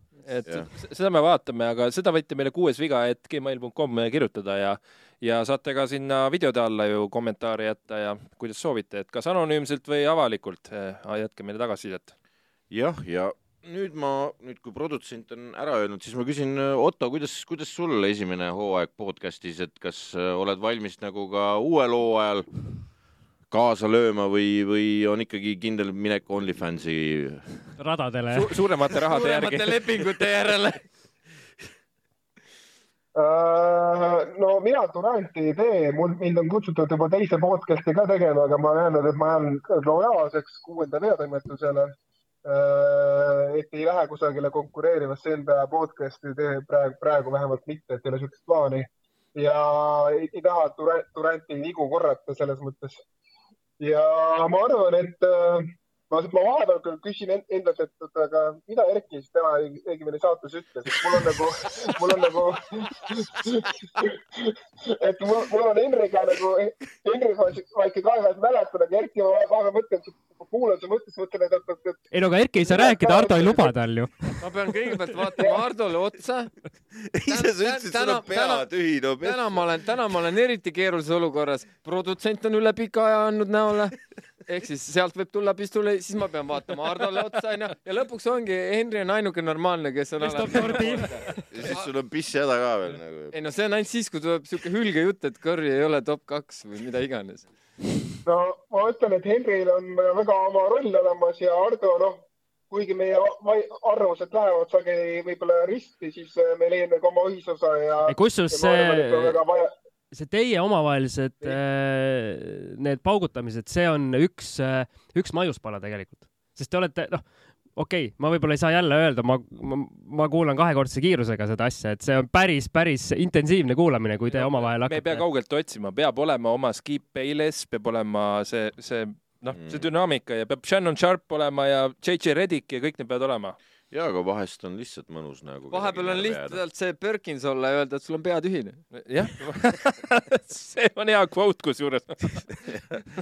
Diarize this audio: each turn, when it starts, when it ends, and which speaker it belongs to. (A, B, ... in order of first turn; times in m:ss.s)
0:00.2-0:12.1 A
0:12.7-0:22.5 B
0:23.5-0:27.6 B
0:27.8-0:28.5 C
0:28.3-0:30.1 A
0:28.9-0:30.8 D
0:33.2-0:41.9 E
0:42.4-0:53.0 E
0:53.8-1:13.7 E
1:12.1-1:14.4 C
1:14.4-1:16.6 D
1:15.4-1:15.6 E
1:17.1-1:19.6 B
1:17.3-1:31.9 D
1:30.2-1:31.4 C
1:31.5-1:33.3 B
1:33.3-1:37.5 D
1:38.2-1:49.7 E
1:48.1-1:49.4 C
1:50.1-1:57.2 C
1:57.8-2:05.2 C
2:04.3-2:13.6 A
2:09.5-2:09.9 B
2:13.9-2:16.6 B
2:15.7-2:18.8 D
2:18.9-2:23.0 A